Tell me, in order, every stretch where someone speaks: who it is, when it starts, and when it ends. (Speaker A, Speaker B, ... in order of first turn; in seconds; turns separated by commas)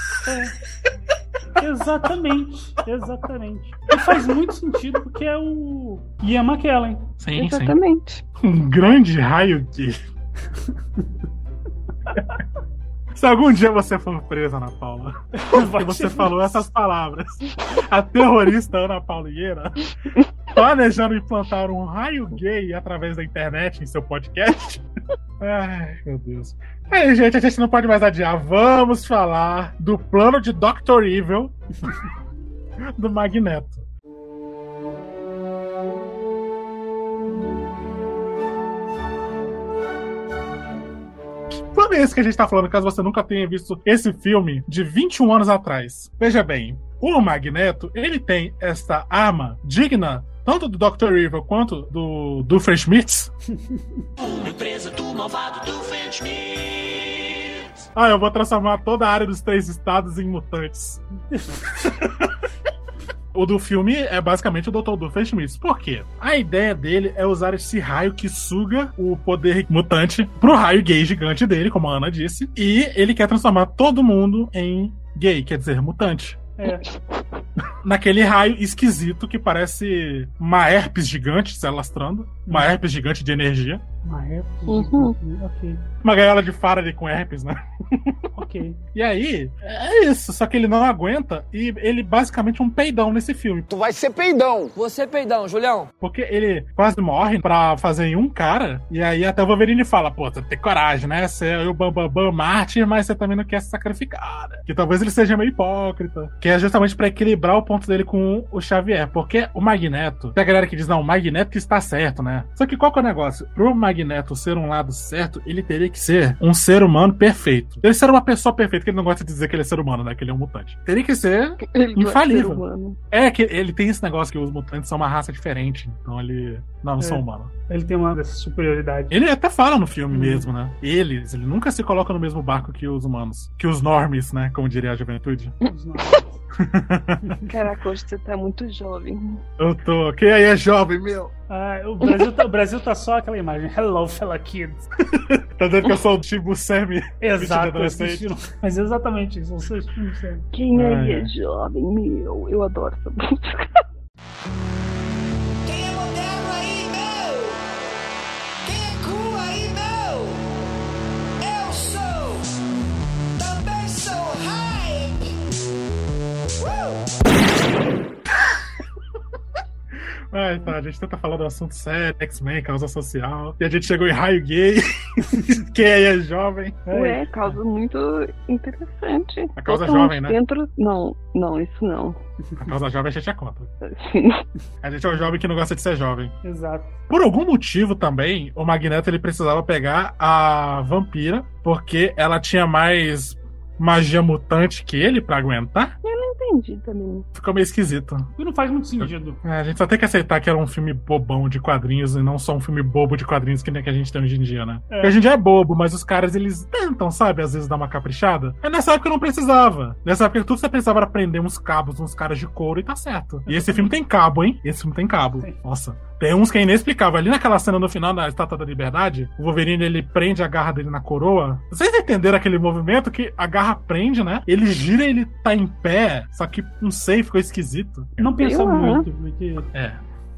Speaker A: 0.2-0.5, Speaker A: 1.6-7.1, Speaker B: 7.2-7.8, Speaker C: 7.3-8.2, Speaker B: 8.4-10.0, Speaker B: 13.1-19.9, Speaker A: 15.4-16.4, Speaker B: 20.5-24.8, Speaker B: 25.4-31.9, Speaker A: 31.8-32.1, Speaker B: 33.0-33.8, Speaker B: 41.5-53.3, Speaker A: 53.6-54.1, Speaker D: 54.5-56.1, Speaker B: 57.9-61.0, Speaker A: 61.3-62.0, Speaker B: 61.9-62.3, Speaker B: 63.3-76.4, Speaker A: 76.6-76.8, Speaker B: 77.8-83.8, Speaker A: 82.5-82.8, Speaker A: 84.0-85.8, Speaker C: 84.7-85.1, Speaker B: 86.0-88.2, Speaker A: 88.3-88.8, Speaker B: 88.9-93.7, Speaker E: 93.7-95.9, Speaker B: 96.0-127.5, Speaker C: 121.7-123.0, Speaker A: 127.0-129.2, Speaker B: 129.1-135.5, Speaker A: 130.1-130.5, Speaker A: 135.7-136.4, Speaker B: 136.6-137.3, Speaker A: 137.2-137.5, Speaker C: 137.5-139.4, Speaker B: 139.6-141.3, Speaker A: 141.5-144.9, Speaker B: 145.1-148.3, Speaker A: 147.2-150.5, Speaker C: 150.5-153.8, Speaker B: 150.7-151.3, Speaker D: 155.7-157.3, Speaker D: 158.7-160.2, Speaker D: 161.5-162.2, Speaker D: 163.4-165.1, Speaker B: 170.3-176.9, Speaker A: 176.9-177.3, Speaker C: 176.9-182.2, Speaker B: 179.6-180.4, Speaker B: 182.6-183.7, Speaker C: 183.8-184.4, Speaker B: 184.8-186.3, Speaker A: 186.4-187.0, Speaker B: 187.1-195.9, Speaker C: 196.0-197.3, Speaker B: 197.3-198.3, Speaker A: 198.4-199.4, Speaker B: 199.0-228.2, Speaker A: 204.9-205.2, Speaker A: 213.5-213.9, Speaker A: 228.2-229.7, Speaker C: 228.4-229.1, Speaker B: 229.7-230.0